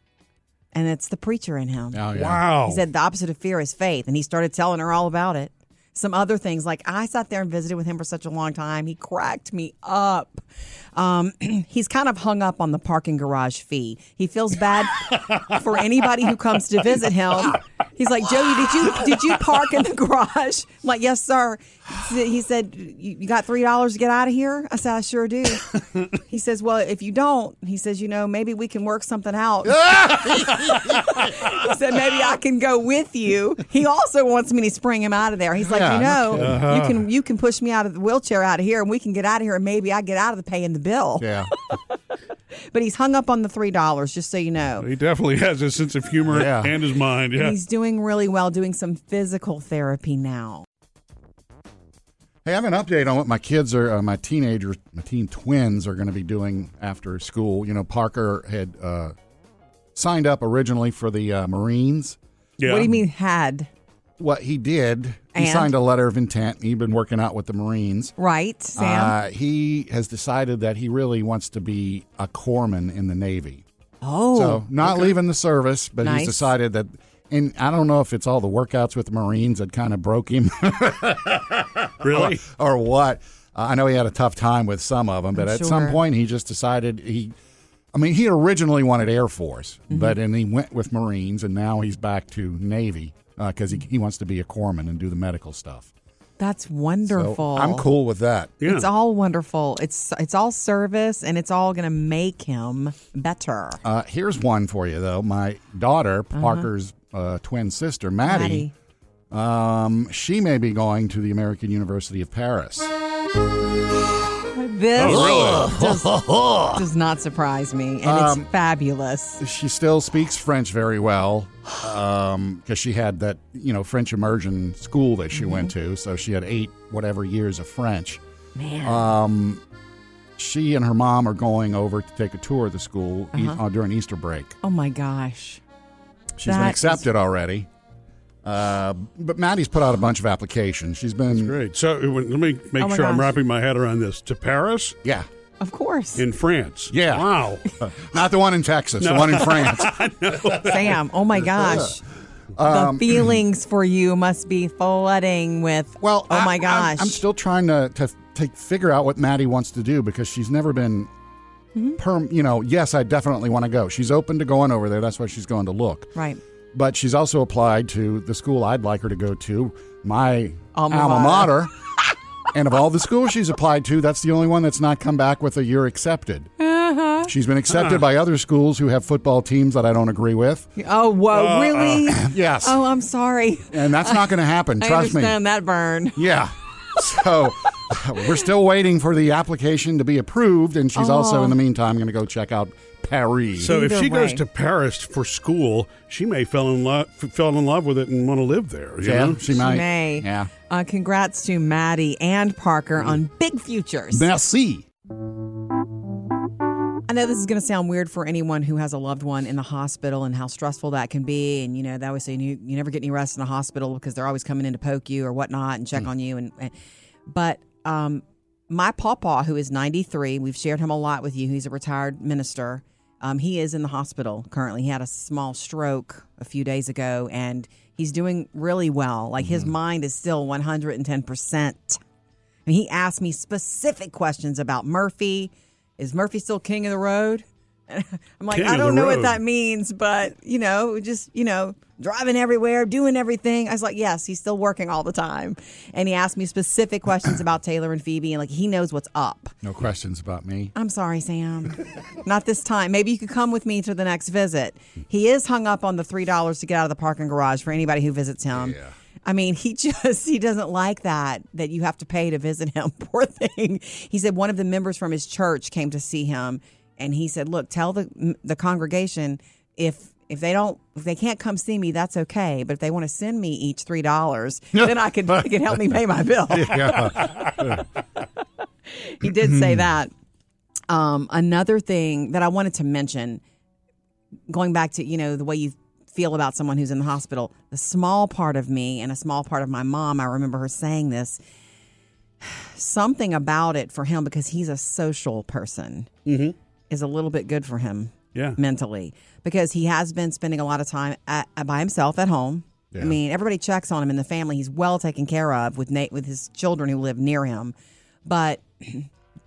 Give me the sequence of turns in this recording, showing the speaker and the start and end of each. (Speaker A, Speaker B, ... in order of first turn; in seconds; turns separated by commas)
Speaker A: 0.7-2.0, Speaker B: 1.9-2.4, Speaker C: 2.1-2.8, Speaker A: 2.6-10.4, Speaker A: 10.9-41.8, Speaker B: 29.7-31.0, Speaker B: 35.6-36.6, Speaker C: 36.4-37.0, Speaker B: 41.2-41.5, Speaker A: 42.7-44.9, Speaker C: 44.8-47.6, Speaker B: 46.3-46.8, Speaker A: 47.4-50.6, Speaker B: 52.5-59.1, Speaker B: 60.0-62.2, Speaker C: 62.6-62.9, Speaker A: 62.6-63.7, Speaker B: 64.2-68.1, Speaker A: 65.4-65.7, Speaker A: 68.2-69.1, Speaker B: 68.8-73.6, Speaker A: 74.0-74.8, Speaker B: 74.3-87.3, Speaker A: 76.0-76.5, Speaker C: 82.0-82.4, Speaker A: 85.4-86.0, Speaker B: 87.9-95.9, Speaker A: 96.4-97.9, Speaker B: 97.1-98.6, Speaker C: 98.6-98.9, Speaker A: 98.6-103.8, Speaker B: 103.8-108.7, Speaker A: 106.3-106.7, Speaker A: 108.3-108.7, Speaker B: 109.3-112.9, Speaker A: 114.4-116.2, Speaker C: 115.0-115.7, Speaker B: 115.0-116.8, Speaker A: 116.7-119.4, Speaker B: 118.0-118.5, Speaker B: 119.4-128.2, Speaker A: 125.4-125.7, Speaker A: 128.6-129.1, Speaker B: 128.8-129.6, Speaker B: 130.4-134.6, Speaker A: 133.3-133.6, Speaker A: 134.6-135.6, Speaker B: 136.4-137.7, Speaker A: 136.4-137.1, Speaker B: 138.4-141.6, Speaker C: 141.3-145.0, Speaker A: 142.8-143.3, Speaker A: 145.6-146.2, Speaker C: 146.2-147.7, Speaker B: 146.9-150.0, Speaker C: 149.0-151.0, Speaker A: 150.6-152.0, Speaker B: 151.5-152.0, Speaker B: 152.6-153.3, Speaker A: 152.6-157.2, Speaker B: 156.0-161.1, Speaker B: 162.0-166.1, Speaker A: 166.2-166.4, Speaker B: 166.7-171.7, Speaker A: 170.8-171.6, Speaker B: 172.5-176.5, Speaker A: 176.6-177.3, Speaker B: 177.3-180.7, Speaker C: 177.7-178.0, Speaker A: 180.8-186.2, Speaker C: 181.3-182.1, Speaker B: 182.1-182.8, Speaker B: 183.7-185.4, Speaker B: 186.2-193.7, Speaker A: 190.9-191.6, Speaker C: 193.6-199.4, Speaker A: 193.6-194.4, Speaker B: 199.0-200.5, Speaker A: 199.5-204.3, Speaker B: 204.1-204.9, Speaker A: 207.1-216.7, Speaker A: 217.3-232.0, Speaker B: 229.4-229.7, Speaker A: 232.7-249.5, Speaker C: 238.5-239.4, Speaker B: 249.6-250.7, Speaker A: 250.8-277.8, Speaker B: 258.5-258.9, Speaker B: 274.8-275.5, Speaker B: 276.5-277.8, Speaker A: 278.9-280.1, Speaker B: 279.5-279.8, Speaker A: 280.9-283.4, Speaker A: 284.5-291.4, Speaker A: 292.4-296.1, Speaker C: 296.3-296.6, Speaker A: 296.9-307.7, Speaker A: 308.2-309.1